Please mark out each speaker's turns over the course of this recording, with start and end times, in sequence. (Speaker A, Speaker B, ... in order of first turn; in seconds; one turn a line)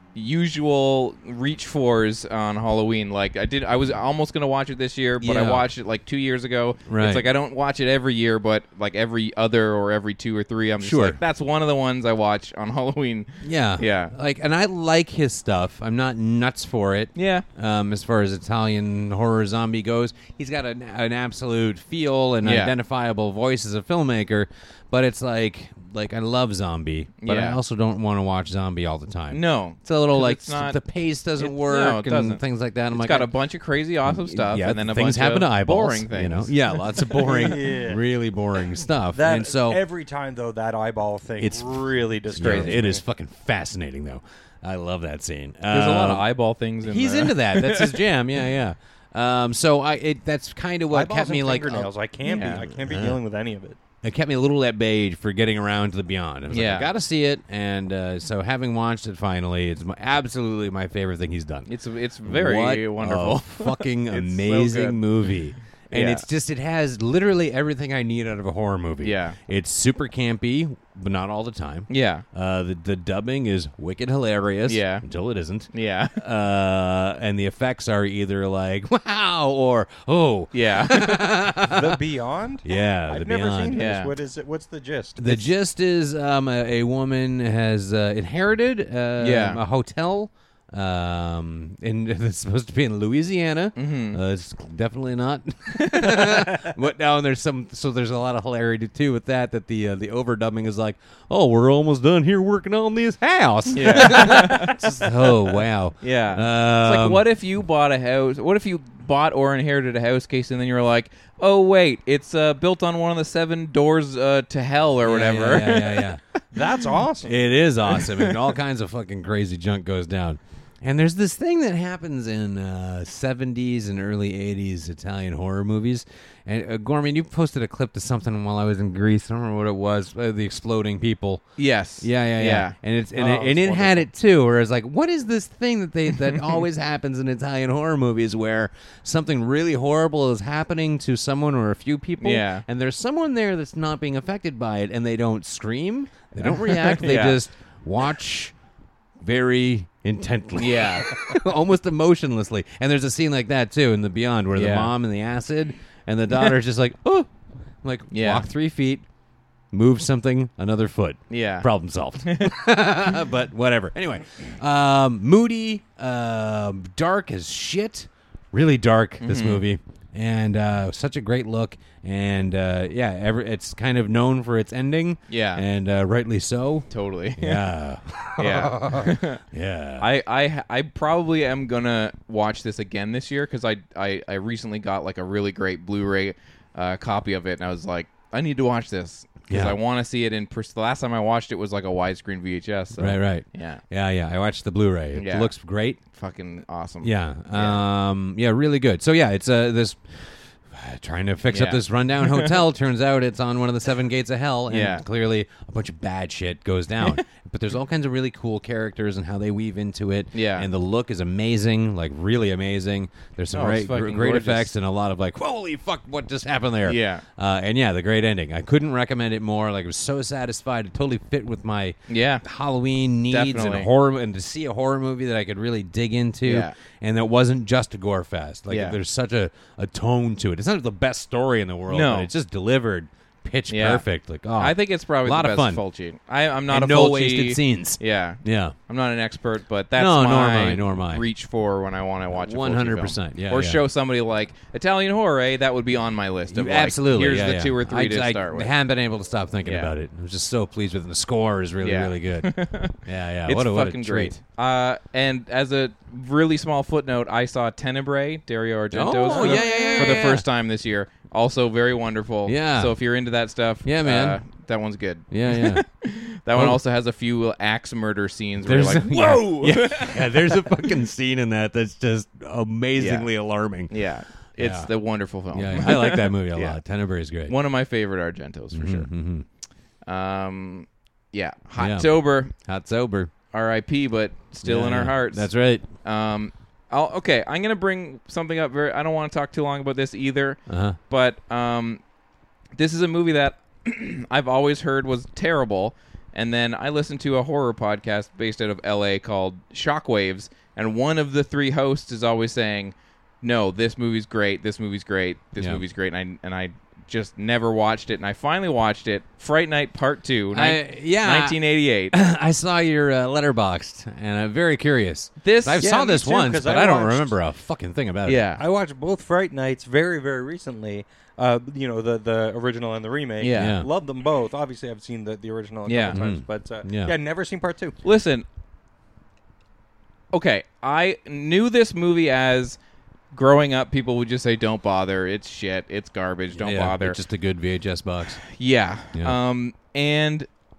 Speaker A: 0.1-14.1
Speaker B: 5.2-5.7
Speaker B: 6.9-7.3
Speaker B: 10.8-11.2
Speaker B: 13.4-33.3
Speaker A: 17.2-17.4
Speaker A: 22.4-22.7
Speaker A: 27.2-27.6
Speaker A: 29.3-30.8
Speaker A: 31.4-36.7
Speaker B: 34.0-39.8
Speaker C: 37.1-38.0
Speaker C: 39.1-43.0
Speaker B: 41.4-41.7
Speaker B: 42.3-46.3
Speaker A: 42.4-42.8
Speaker A: 45.7-48.0
Speaker B: 46.8-53.2
Speaker C: 50.9-53.8
Speaker A: 52.3-52.6
Speaker B: 54.0-61.7
Speaker A: 56.5-56.9
Speaker A: 61.7-65.0
Speaker B: 62.3-82.0
Speaker A: 65.9-66.3
Speaker A: 69.0-69.4
Speaker A: 71.9-72.2
Speaker A: 74.7-75.0
Speaker A: 75.7-76.2
Speaker A: 80.5-81.3
Speaker C: 81.7-85.5
Speaker B: 82.6-83.9
Speaker A: 83.7-84.1
Speaker B: 85.2-107.2
Speaker A: 89.2-89.6
Speaker A: 93.8-94.2
Speaker A: 95.9-96.4
Speaker A: 103.7-104.8
Speaker A: 106.0-116.1
Speaker B: 115.0-116.2
Speaker C: 116.5-117.4
Speaker B: 117.2-131.4
Speaker A: 118.0-118.4
Speaker A: 131.6-132.8
Speaker B: 132.0-148.6
Speaker C: 133.2-134.1
Speaker A: 142.2-142.7
Speaker A: 146.4-147.4
Speaker B: 149.2-157.3
Speaker A: 150.6-151.2
Speaker A: 154.6-154.9
Speaker B: 157.8-159.1
Speaker A: 158.1-158.5
Speaker B: 159.7-180.1
Speaker A: 161.3-161.7
Speaker A: 162.3-162.5
Speaker A: 169.2-169.7
Speaker A: 175.3-175.6
Speaker A: 176.9-177.7
Speaker A: 178.3-179.4
Speaker A: 180.0-193.8
Speaker B: 189.5-189.8
Speaker B: 193.0-196.0
Speaker A: 195.2-195.5
Speaker A: 196.1-197.8
Speaker B: 197.0-235.8
Speaker A: 201.5-202.6
Speaker A: 204.7-205.0
Speaker A: 210.3-210.7
Speaker A: 213.5-214.7
Speaker A: 216.8-217.2
Speaker A: 222.1-222.4
Speaker A: 223.3-223.9
Speaker A: 226.4-226.8
Speaker A: 228.7-229.0
Speaker A: 231.9-232.3
Speaker A: 233.7-248.7
Speaker B: 236.7-238.8
Speaker B: 239.9-241.3
Speaker B: 242.3-243.8
Speaker B: 246.5-254.4
Speaker A: 249.7-249.9
Speaker A: 251.8-270.6
Speaker B: 258.9-260.5
Speaker C: 259.3-260.2
Speaker B: 262.4-263.0
Speaker B: 263.8-264.4
Speaker B: 265.3-265.9
Speaker B: 266.5-266.8
Speaker B: 268.6-273.9
Speaker A: 273.0-273.3
Speaker A: 273.9-276.8
Speaker B: 274.6-274.9
Speaker B: 275.5-277.6
Speaker A: 277.4-279.1
Speaker B: 278.7-279.5
Speaker A: 280.1-282.5
Speaker B: 281.8-283.3
Speaker A: 283.5-292.0
Speaker B: 284.6-285.9
Speaker B: 290.7-291.0
Speaker A: 292.8-312.2
Speaker B: 305.6-305.8
Speaker B: 310.5-311.6
Speaker B: 312.1-318.5
Speaker A: 315.4-316.1
Speaker C: 315.9-317.4
Speaker A: 318.3-318.6
Speaker C: 318.6-327.9
Speaker A: 323.4-323.8
Speaker B: 323.6-323.9
Speaker A: 325.9-326.2
Speaker B: 326.1-327.1
Speaker A: 328.0-328.4
Speaker A: 330.3-332.8
Speaker A: 333.3-337.2
Speaker B: 336.5-338.4
Speaker A: 338.4-340.5
Speaker B: 339.1-339.4